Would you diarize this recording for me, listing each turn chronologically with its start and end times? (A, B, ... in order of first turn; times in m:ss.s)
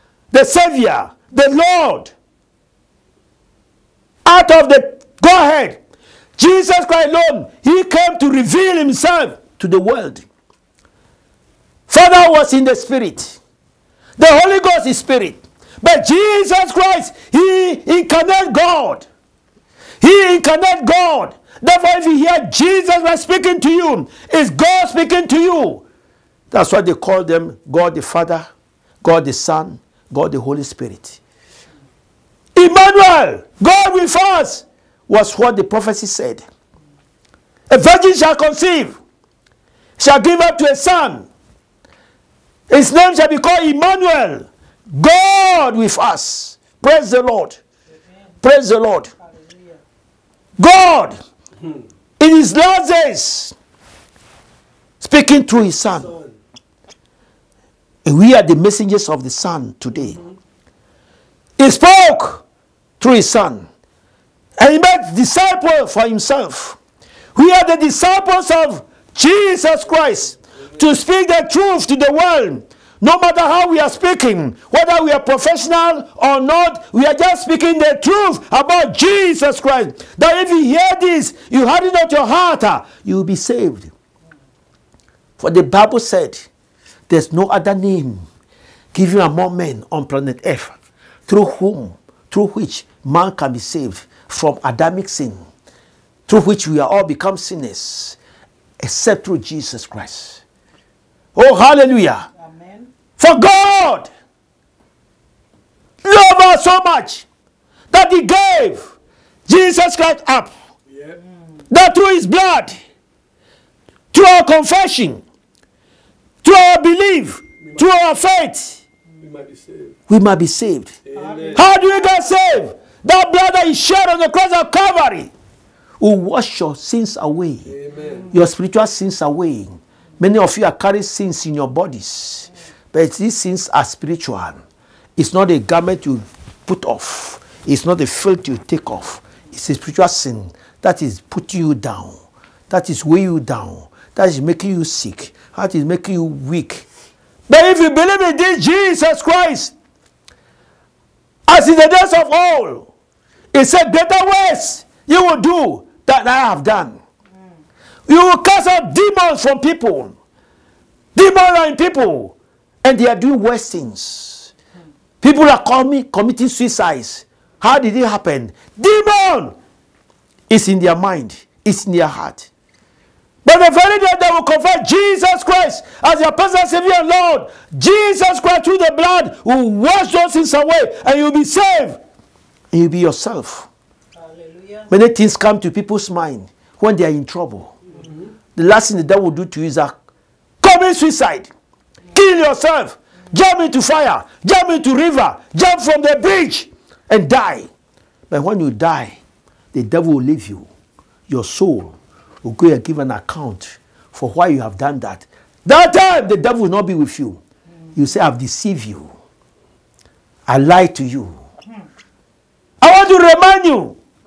0:00.3-0:02.1 A
0:04.2-0:05.8 A
0:06.4-0:10.2 A
0:11.9-0:13.4 A
0:14.2-0:19.1 A
0:20.0-0:25.8 A
0:26.5-0:28.5 A
0:29.0-0:31.2 A
0:32.5-0:36.4 A
0:37.7-0:39.0 A
0:40.0-0:41.3 A
0:42.7-0:47.6 A
0:47.9-0:48.2 B
0:48.4-0:49.1 A
0:49.2-0:49.8 B
0:50.6-0:51.2 A
0:52.2-0:53.5 A
0:55.0-0:56.1 A
0:55.8-0:56.4 C
0:58.0-1:00.2 A
0:59.9-1:00.3 C
1:01.6-1:02.4 A
1:03.0-1:03.7 A
1:04.6-1:06.8 A
1:07.3-1:23.9 A
1:10.6-1:10.8 C
1:25.4-1:26.5 A
1:27.1-1:28.2 A
1:28.9-1:30.8 A
1:31.3-1:35.4 A
1:36.3-1:38.2 A
1:38.8-1:40.4 A
1:41.3-1:42.3 A
1:42.4-1:42.9 B
1:43.2-1:44.1 A
1:46.0-1:47.2 A
1:47.9-1:48.9 A
1:49.5-1:50.5 A
1:50.8-1:51.2 C
1:51.7-1:52.8 A
1:54.1-1:55.2 A
1:56.4-1:58.8 A
1:57.6-1:57.9 C
1:59.2-2:00.0 C
2:00.1-2:00.9 A
2:01.0-2:01.6 C
2:01.1-2:01.8 B
2:01.5-2:05.3 A
2:06.0-2:07.7 A
2:07.6-2:08.3 C
2:08.3-2:14.6 A
2:15.2-2:26.9 A
2:27.5-2:29.7 A
2:31.5-2:32.9 A
2:33.5-2:37.0 A
2:38.1-2:40.1 A
2:41.1-2:44.5 A
2:45.2-2:49.6 A
2:50.5-2:52.5 A
2:53.4-3:02.0 A
3:02.7-3:03.7 A
3:04.1-3:04.9 B
3:04.9-3:07.7 A
3:07.9-3:08.3 C
3:08.5-3:09.9 A
3:10.6-3:11.5 A
3:12.1-3:17.7 A
3:18.3-3:19.2 A
3:19.7-3:20.7 A
3:21.3-3:27.4 A
3:28.0-3:29.1 A
3:30.5-3:31.4 A
3:32.8-3:34.0 A